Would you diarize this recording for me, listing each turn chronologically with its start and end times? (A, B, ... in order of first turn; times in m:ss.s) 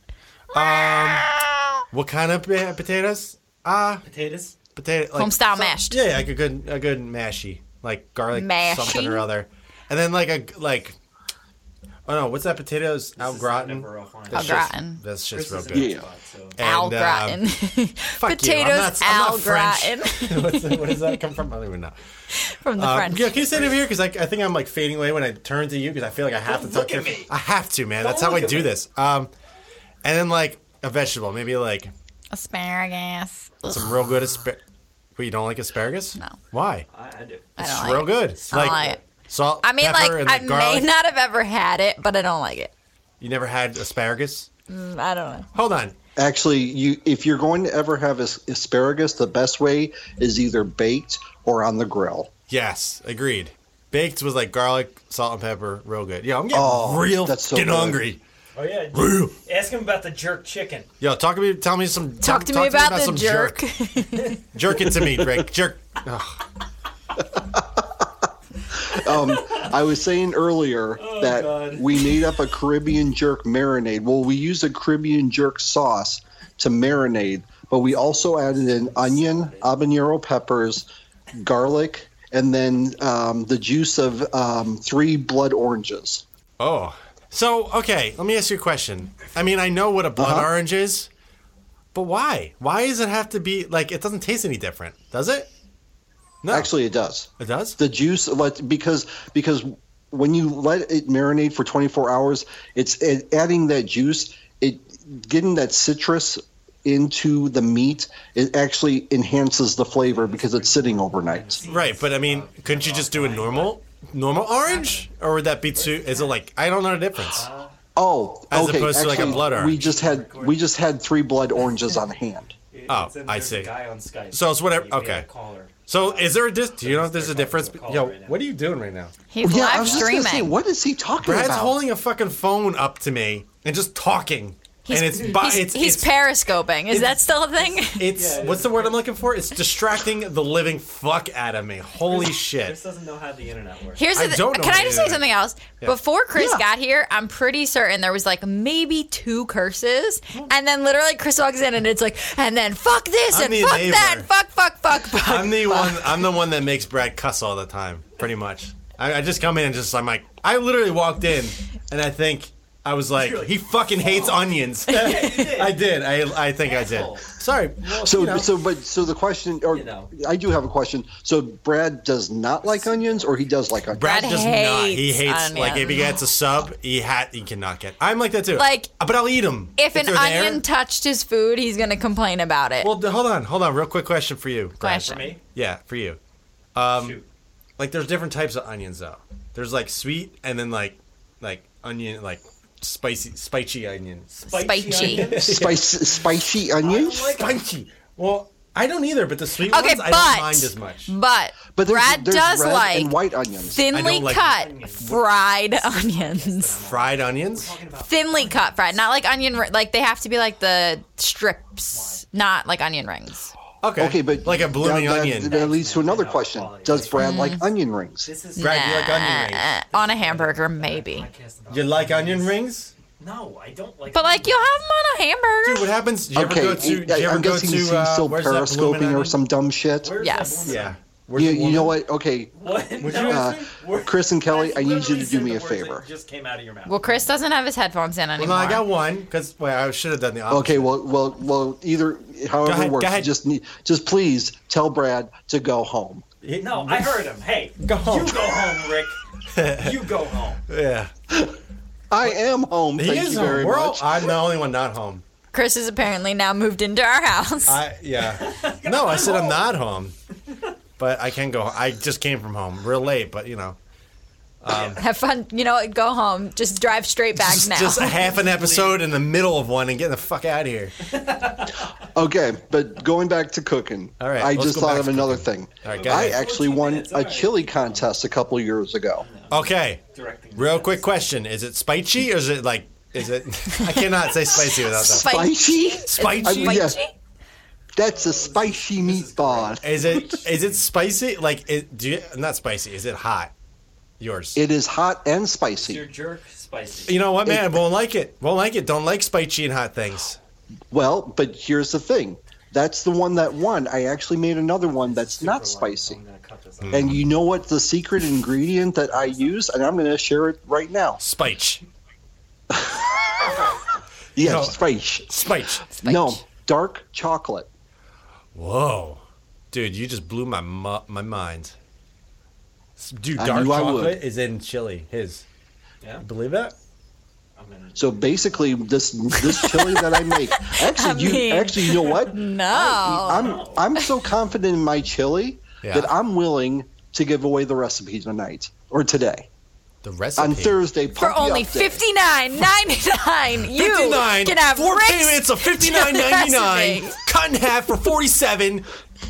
0:00.5-0:01.3 A
0:00.5-0:01.8 B
0:01.9-0:04.0 A
0:04.0-0:04.6 C
0:04.7-0:11.0 A
0:05.2-0:06.0 B
0:08.3-0:09.3 B
0:12.1-0:15.9 A
0:13.2-0:14.7 C
0:14.3-0:15.0 B
0:15.3-0:16.6 C
0:15.7-0:16.1 D
0:16.6-0:17.4 A
0:16.6-0:21.2 B
0:18.2-0:22.0 A
0:22.3-0:23.5 B
0:22.8-0:29.3 A
0:26.4-0:27.3 C
0:28.0-0:28.7 C
0:30.0-0:31.9 A
0:32.3-0:33.9 B
0:33.7-0:34.6 A
0:35.2-0:36.9 A
0:36.9-0:37.6 C
0:37.6-0:39.0 B
0:37.6-0:40.9 A
0:38.5-0:39.0 C
0:39.6-0:42.7 B
0:43.2-0:44.5 A
0:44.7-0:45.5 B
0:45.5-0:46.0 A
0:46.2-0:52.3 D
0:52.5-0:58.2 A
0:56.5-0:58.0 D
0:58.6-1:00.9 C
0:58.9-0:59.4 A
1:01.0-1:03.6 A
1:02.2-1:04.4 B
1:04.5-1:06.4 A
1:07.4-1:08.1 D
1:08.8-1:26.2 D
1:08.9-1:09.8 C
1:11.0-1:12.4 C
1:18.4-1:19.7 C
1:26.6-1:31.1 A
1:30.2-1:30.5 D
1:31.9-1:35.5 A
1:36.4-1:36.7 A
1:36.5-1:51.6 D
1:37.4-1:37.8 A
1:49.9-1:53.8 C
1:51.6-1:57.5 A
1:54.6-1:55.1 C
1:55.7-1:56.3 C
1:57.3-1:57.7 C
1:58.0-2:02.5 D
1:58.5-1:59.8 A
1:59.0-2:00.7 C
2:01.6-2:02.1 C
2:02.7-2:08.4 C
2:02.9-2:03.7 A
2:04.3-2:05.3 A
2:05.9-2:09.1 A
2:09.3-2:10.6 B
2:09.4-2:11.8 D
2:09.8-2:10.2 C
2:11.2-2:16.1 A
2:14.9-2:18.1 B
2:17.8-2:22.8 A
2:18.0-2:19.0 C
2:22.0-2:24.0 C
2:24.0-2:36.2 B
2:24.2-2:25.2 A
2:26.4-2:26.6 D
2:33.3-2:34.3 A
2:35.2-2:48.5 A
2:43.2-2:45.9 C
2:46.6-2:48.5 C
2:48.0-2:54.3 D
2:49.7-2:50.1 C
2:52.6-2:53.3 C
2:53.9-3:00.6 A
2:54.0-2:56.2 B
2:58.6-2:58.9 B
2:59.8-3:02.9 B
3:02.8-3:06.2 A
3:04.8-3:05.3 B
3:04.9-3:05.4 C
3:06.8-3:07.2 A
3:07.0-3:07.3 C
3:07.8-3:14.3 A
3:14.4-3:15.9 C
3:14.5-3:15.3 B
3:14.9-3:16.0 A
3:15.4-3:17.4 D
3:16.8-3:17.6 C
3:17.3-3:21.1 A
3:19.7-3:23.1 B
3:21.8-3:23.8 D
3:23.7-3:25.2 C
3:23.7-3:26.8 B
3:23.9-3:25.2 A
3:25.7-3:29.0 C
3:26.8-3:27.7 A
3:28.0-3:33.5 B
3:31.9-3:32.2 C
3:33.8-3:35.6 A
3:34.0-3:38.3 D
3:35.4-3:37.2 C
3:37.2-3:37.6 B
3:38.3-3:38.8 C
3:38.6-3:39.7 A
3:38.6-3:41.3 B
3:39.9-3:42.5 C
3:41.7-3:42.9 A
3:43.2-3:44.6 C
3:44.1-3:45.9 B
3:45.6-3:49.4 A
3:46.3-3:50.2 D
3:50.0-3:51.0 C
3:50.2-3:50.8 B
3:50.6-3:52.0 A
3:51.4-3:52.5 D
3:52.5-3:57.3 C
3:53.0-3:53.5 A
3:53.1-3:56.0 D
3:56.9-3:58.9 B
3:58.4-4:00.9 A
4:00.5-4:06.2 D
4:02.6-4:03.3 A
4:06.4-4:09.2 C
4:06.7-4:07.2 A
4:07.8-4:08.5 A
4:09.5-4:10.0 A
4:09.8-4:10.6 C
4:10.7-4:11.1 A
4:12.1-4:14.3 D
4:13.0-4:15.2 A
4:15.5-4:17.8 B
4:17.7-4:20.2 A
4:18.2-4:19.7 C
4:21.0-4:23.8 A
4:24.6-4:25.0 A
4:24.7-4:25.0 C
4:24.7-4:28.2 B
4:27.4-4:30.9 A
4:28.2-4:29.0 C
4:31.1-4:31.9 C
4:32.1-4:39.3 D
4:34.2-4:36.4 A
4:35.9-4:38.1 C
4:39.2-4:41.2 C
4:39.5-4:40.0 A
4:40.6-4:45.3 A
4:44.5-4:47.1 B
4:45.0-4:47.0 D
4:46.1-4:47.0 A
4:48.0-4:50.3 D
4:48.0-4:50.8 C
4:49.8-4:53.5 A
4:54.2-4:54.6 A
4:54.6-4:56.0 D
4:55.8-4:57.1 C
4:57.1-5:00.4 A
4:57.5-4:57.8 D
5:00.9-5:06.2 D
5:04.8-5:07.2 C
5:06.8-5:07.2 A
5:06.9-5:11.2 D
5:09.1-5:09.6 C
5:11.2-5:11.8 A
5:12.7-5:13.7 D
5:13.4-5:13.8 C
5:14.4-5:15.4 D
5:14.4-5:15.9 A
5:15.9-5:16.4 B
5:16.0-5:17.7 D
5:18.5-5:21.8 A
5:23.0-5:25.4 A
5:23.4-5:24.2 D
5:26.2-5:26.8 A
5:27.6-5:28.8 C
5:28.0-5:39.5 D
5:29.4-5:34.1 B
5:33.2-5:33.9 C
5:35.8-5:36.1 A
5:40.0-5:40.8 A
5:40.4-5:42.0 D
5:41.2-5:47.2 B
5:43.6-5:48.9 A